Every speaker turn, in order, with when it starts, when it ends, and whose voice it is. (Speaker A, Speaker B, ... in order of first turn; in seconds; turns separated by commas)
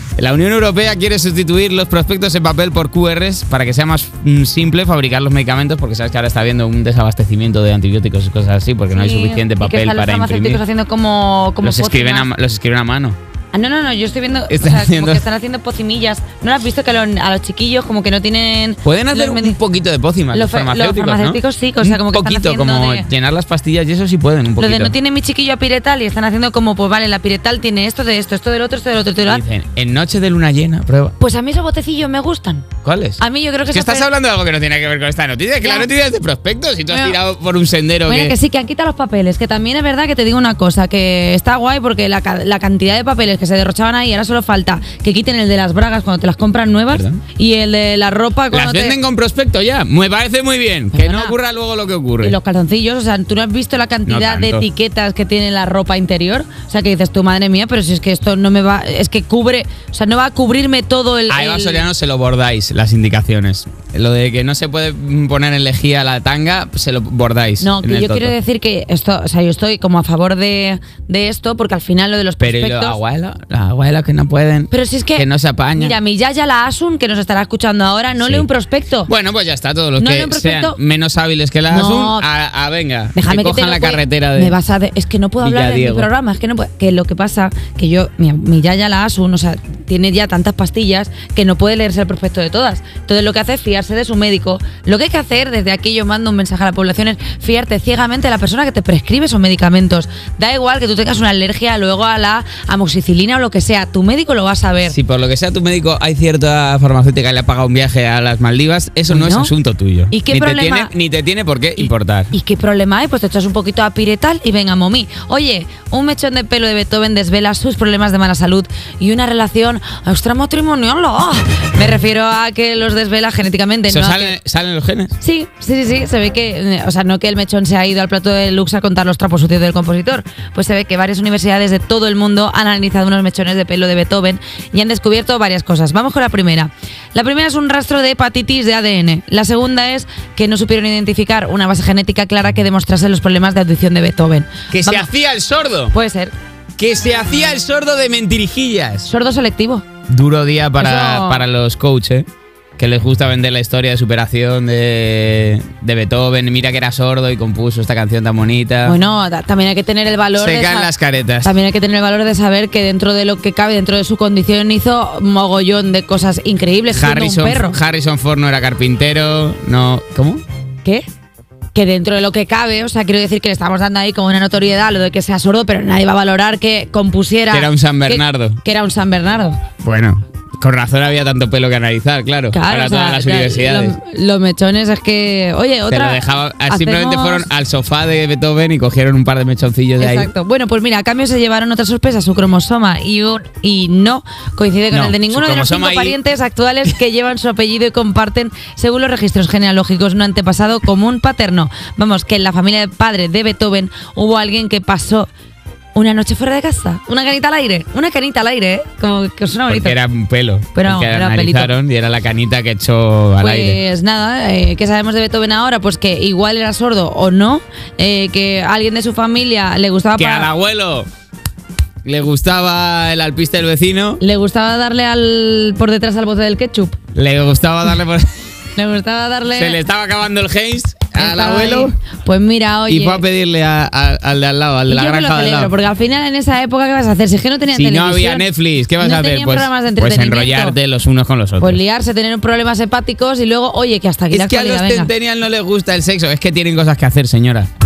Speaker A: 0.2-10.6, Speaker B: 8.9-12.3, Speaker A: 11.6-13.2, Speaker B: 13.5-19.6, Speaker A: 14.5-15.2, Speaker A: 18.8-24.9, Speaker B: 20.3-23.1, Speaker B: 24.6-29.4, Speaker A: 29.2-31.1, Speaker B: 31.2-32.7, Speaker A: 32.8-38.3, Speaker B: 33.2-34.1, Speaker B: 35.6-35.9, Speaker B: 36.9-37.2, Speaker B: 38.0-49.0, Speaker A: 46.9-47.2, Speaker A: 48.5-52.4, Speaker B: 50.9-51.4, Speaker B: 52.2-61.9, Speaker A: 54.0-54.6, Speaker A: 61.3-68.3, Speaker B: 67.6-73.0, Speaker A: 72.4-76.0, Speaker B: 74.7-79.1, Speaker A: 78.2-78.5, Speaker A: 79.1-84.5, Speaker B: 80.0-80.8, Speaker B: 81.7-82.3, Speaker B: 83.1-105.0, Speaker A: 85.4-86.1, Speaker A: 104.9-112.3, Speaker B: 109.1-109.5, Speaker B: 110.1-110.9, Speaker B: 111.8-124.3, Speaker A: 123.9-125.1, Speaker B: 125.2-145.1, Speaker A: 144.7-145.9, Speaker B: 145.9-146.3, Speaker A: 146.8-149.1, Speaker B: 149.0-149.8, Speaker A: 150.1-152.2, Speaker B: 150.8-151.4, Speaker A: 152.8-159.0, Speaker B: 158.8-167.8, Speaker A: 160.4-161.5, Speaker A: 166.9-170.4, Speaker B: 171.7-179.6, Speaker A: 177.5-178.6, Speaker A: 179.8-183.9, Speaker B: 182.5-187.5, Speaker A: 185.9-190.3, Speaker B: 190.0-205.3, Speaker A: 194.9-196.2, Speaker B: 205.9-210.0, Speaker A: 209.7-213.8, Speaker B: 210.7-211.7, Speaker B: 213.4-220.5, Speaker A: 220.1-221.1, Speaker A: 222.0-224.2, Speaker B: 224.2-227.0, Speaker A: 227.1-228.4, Speaker B: 228.8-229.8, Speaker A: 229.5-231.9, Speaker B: 231.1-233.2, Speaker A: 232.9-235.7, Speaker B: 234.9-240.8, Speaker A: 237.7-241.8, Speaker B: 241.6-245.1, Speaker A: 244.3-247.7